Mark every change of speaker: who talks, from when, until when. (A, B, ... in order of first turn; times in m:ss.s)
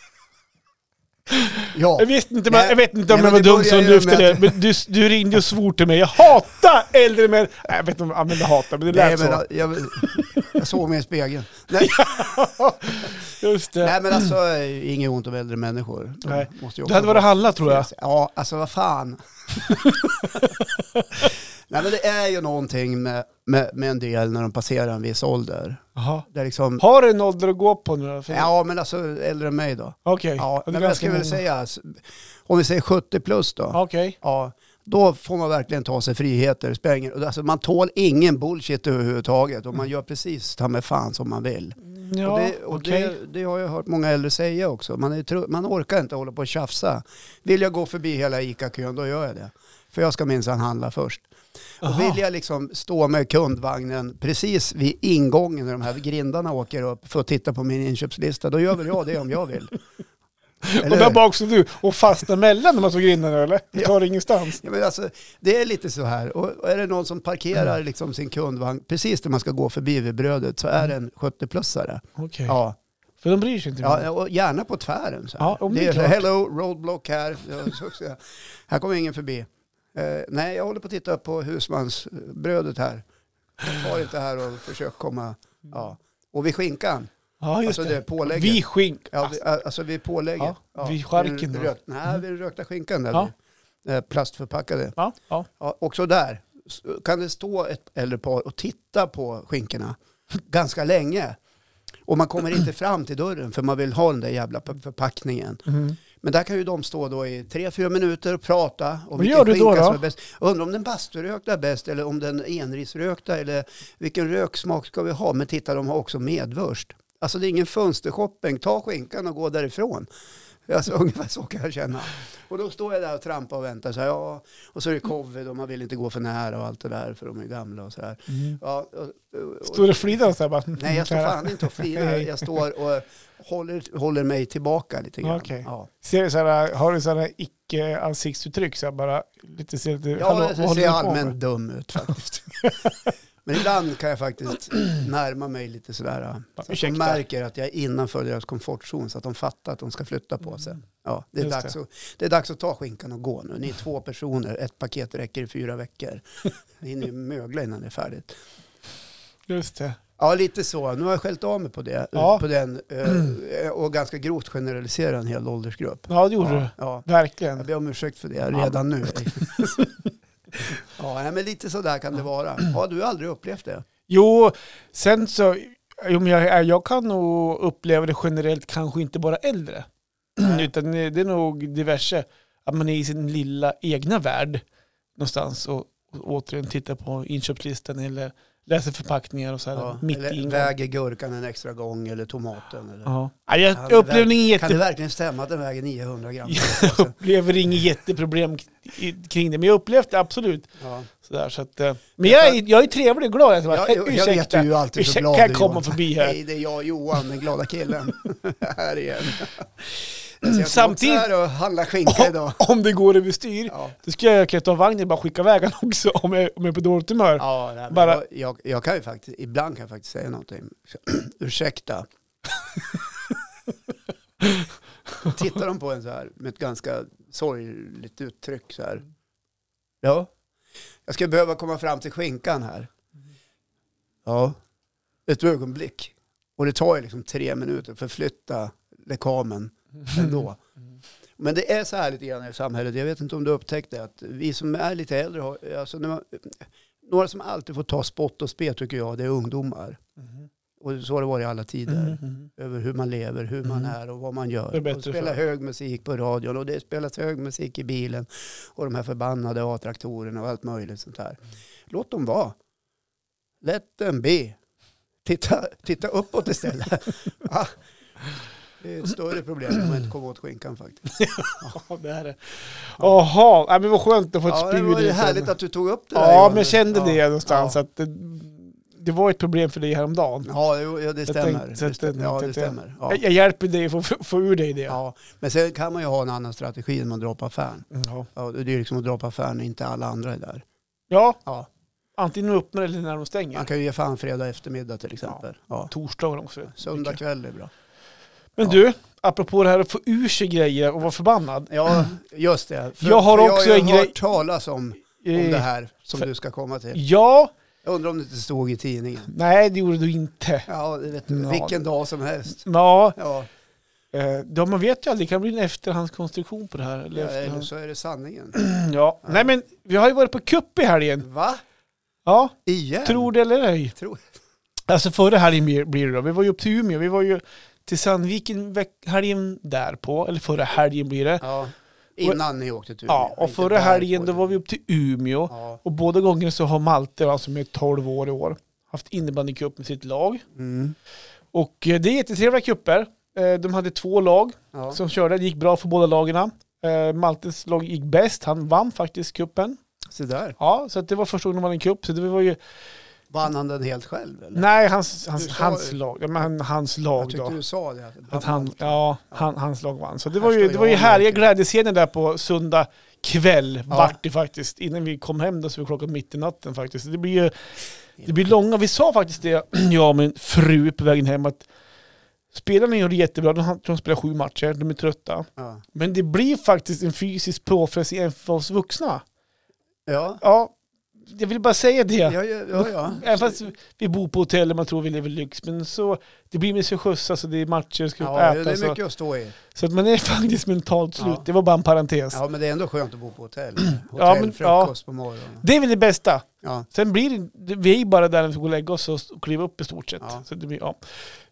0:01.3-0:09.4 A
0:01.7-0:04.6 B
0:08.9-0:12.4 B
0:11.8-0:14.2 A
0:13.8-0:20.5 B
0:16.3-0:17.9 A
0:20.1-0:21.3 A
0:21.2-0:26.8 B
0:26.0-0:26.3 A
0:26.8-0:28.5 A
0:28.3-0:51.3 B
0:30.1-0:31.4 A
0:33.7-0:34.2 A
0:41.9-0:43.1 A
0:51.8-0:59.8 B
0:51.8-0:52.2 A
1:00.6-1:04.6 A
1:00.8-1:01.2 B
1:04.6-1:12.8 B
1:12.2-1:12.6 A
1:13.2-1:14.1 A
1:13.8-1:23.0 B
1:15.4-1:16.2 A
1:23.6-1:27.1 B
1:27.4-1:29.4 A
1:27.6-1:33.3 B
1:30.4-1:31.7 A
1:33.8-1:35.0 B
1:35.0-1:35.5 A
1:35.6-1:41.4 B
1:42.1-2:00.1 B
1:45.7-1:46.0 A
1:49.2-1:50.0 A
2:00.7-2:10.2 B
2:08.3-2:08.6 A
2:09.7-2:12.3 A
2:10.8-2:15.9 B
2:15.2-2:21.4 A
2:20.2-2:22.8 B
2:23.4-2:38.4 B
2:26.6-2:27.2 A
2:31.4-2:31.7 A
2:39.5-2:40.0 A
2:40.2-2:49.9 B
2:42.2-2:42.4 A
2:46.1-2:47.7 A
2:48.5-2:48.8 A
2:51.0-2:53.8 B
2:54.1-3:04.6 A
3:00.4-3:00.7 B
3:05.2-3:10.7 A
3:09.7-3:13.1 B
3:13.1-3:14.8 A
3:13.7-3:17.2 B
3:16.5-3:26.4 A
3:20.8-3:21.1 B
3:22.2-3:22.6 B
3:23.7-3:29.8 B
3:30.4-3:32.6 B
3:30.4-3:31.3 A
3:32.1-3:38.2 A
3:33.7-3:34.0 B
3:37.4-3:42.1 B
3:44.4-3:44.7 A
3:45.2-3:49.0 B
3:50.0-3:50.3 B
3:51.1-3:52.9 B
3:54.3-3:54.6 B
3:55.3-4:00.6 B
4:00.1-4:00.4 A
4:01.4-4:10.0 B
4:10.8-4:21.4 B
4:11.9-4:12.5 A
4:13.7-4:13.9 A
4:14.7-4:15.4 A
4:21.9-4:22.6 B
4:23.6-4:24.6 B
4:25.2-4:27.8 B
4:28.8-4:31.8 B
4:31.2-4:35.5 A
4:34.5-4:37.8 B
4:36.2-4:40.5 A
4:40.4-4:43.2 B
4:41.3-4:45.0 A
4:44.9-4:50.6 B
4:47.9-4:48.3 A
4:51.1-4:51.4 A
4:52.2-4:53.7 A
4:53.5-4:55.9 B
4:55.9-4:57.2 A
4:56.7-4:57.7 B
4:58.6-5:02.0 A
5:01.7-5:07.0 B
5:03.0-5:04.2 A
5:05.2-5:05.7 A
5:06.9-5:07.5 A
5:07.8-5:09.3 B
5:09.3-5:10.7 A
5:10.7-5:13.5 B
5:11.3-5:11.8 A
5:12.6-5:13.2 A
5:14.1-5:17.7 A
5:17.1-5:18.6 B
5:18.6-5:21.3 A
5:21.2-5:21.6 B
5:22.3-5:24.0 A
5:22.7-5:23.3 B
5:24.0-5:24.3 B
5:24.9-5:31.4 A
5:31.4-5:34.5 B
5:33.1-5:40.4 A
5:35.5-5:35.8 B
5:40.6-5:41.0 B
5:41.5-5:49.8 A
5:44.7-5:45.0 B
5:50.1-5:50.6 B
5:50.6-5:52.6 A
5:53.3-5:54.7 B
5:54.6-5:57.6 A
5:55.3-5:56.5 B
5:57.2-5:59.4 B
5:58.3-6:11.7 A
6:00.4-6:01.4 B
6:03.9-6:04.2 B
6:12.5-6:19.2 A
6:15.6-6:15.8 B
6:20.1-6:20.4 B
6:20.4-6:29.0 A
6:22.2-6:23.6 B
6:28.2-6:29.6 B
6:29.7-6:32.4 A
6:31.2-6:31.4 B
6:32.3-6:35.6 B
6:33.9-6:34.9 A
6:35.6-6:41.2 A